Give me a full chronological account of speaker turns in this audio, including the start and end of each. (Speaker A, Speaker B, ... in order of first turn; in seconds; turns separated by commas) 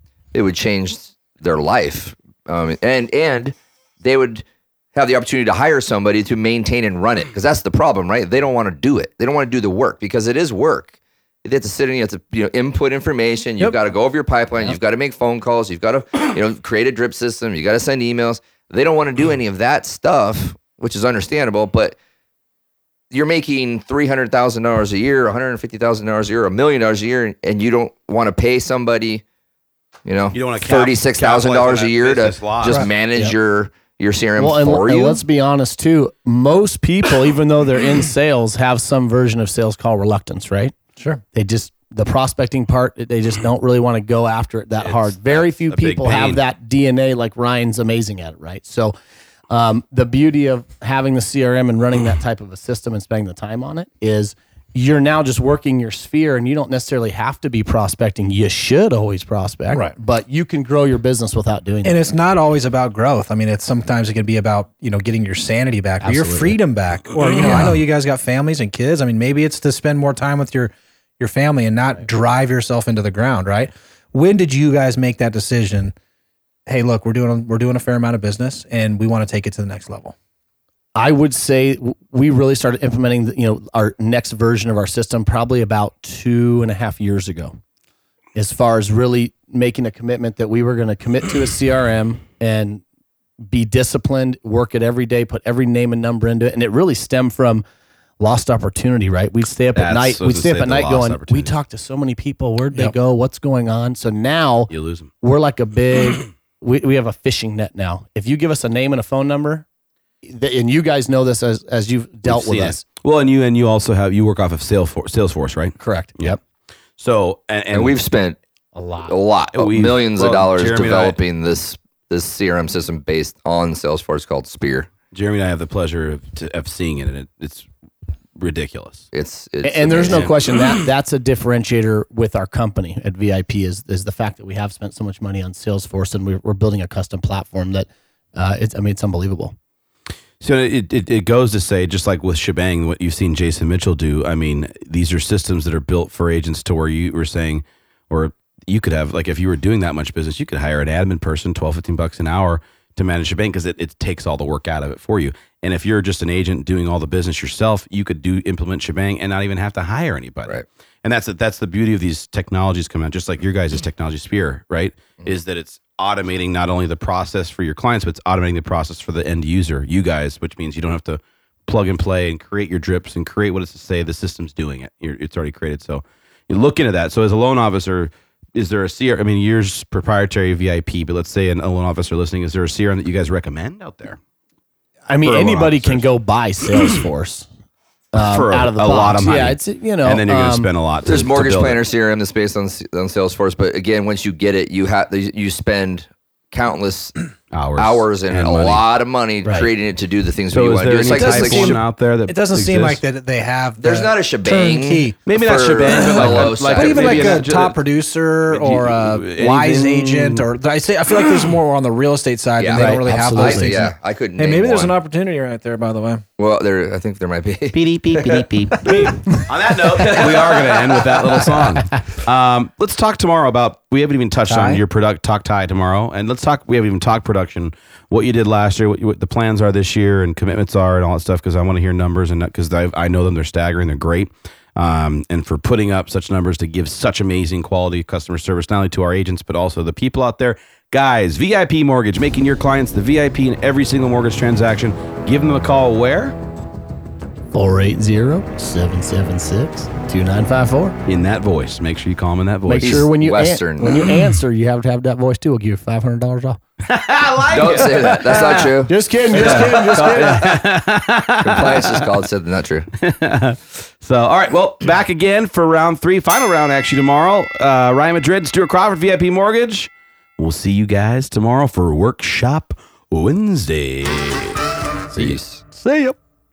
Speaker A: 0.3-4.4, Speaker A: 4.9-21.9, Speaker A: 23.1-29.2, Speaker A: 30.0-35.2, Speaker B: 30.3-32.9, Speaker C: 34.4-40.7, Speaker C: 41.3-48.9, Speaker B: 44.8-46.4, Speaker C: 49.5-62.0, Speaker D: 61.8-75.9, Speaker C: 66.0-66.6, Speaker D: 76.7-80.1, Speaker C: 80.9-87.6, Speaker C: 88.3-92.8, Speaker C: 93.4-97.6, Speaker C: 98.2-109.6, Speaker B: 99.7-101.5, Speaker B: 104.7-105.1, Speaker C: 110.2-112.8, Speaker B: 112.2-116.4, Speaker C: 115.8-116.4, Speaker B: 117.0-118.0, Speaker A: 117.7-118.4, Speaker C: 118.7-119.1, Speaker A: 119.0-124.9, Speaker B: 119.5-121.2, Speaker B: 125.1-127.7, Speaker B: 128.4-129.0, Speaker A: 129.1-130.3, Speaker C: 129.6-139.5, Speaker B: 130.1-130.4, Speaker B: 140.4-184.2, Speaker C: 185.1-187.5, Speaker B: 185.2-186.1, Speaker C: 188.1-190.7, Speaker B: 188.2-191.8, Speaker A: 191.0-197.2, Speaker B: 197.5-198.8, Speaker A: 197.8-201.8, Speaker C: 199.4-199.7, Speaker B: 200.5-203.0, Speaker D: 201.1-205.2, Speaker A: 203.8-207.4, Speaker B: 205.2-207.8, Speaker D: 205.9-216.2, Speaker B: 208.5-210.5, Speaker A: 212.6-214.9, Speaker C: 212.7-213.8, Speaker A: 216.4-218.6, Speaker B: 217.7-246.3, Speaker A: 220.1-220.3, Speaker D: 224.5-224.8, Speaker C: 247.5-250.9, Speaker B: 251.0-253.1, Speaker C: 252.7-256.6, Speaker A: 252.8-254.1, Speaker B: 256.9-258.7, Speaker A: 257.5-260.6, Speaker C: 258.3-260.6, Speaker B: 259.3-262.2, Speaker A: 261.4-262.9, Speaker B: 263.0-276.1, Speaker A: 275.1-275.6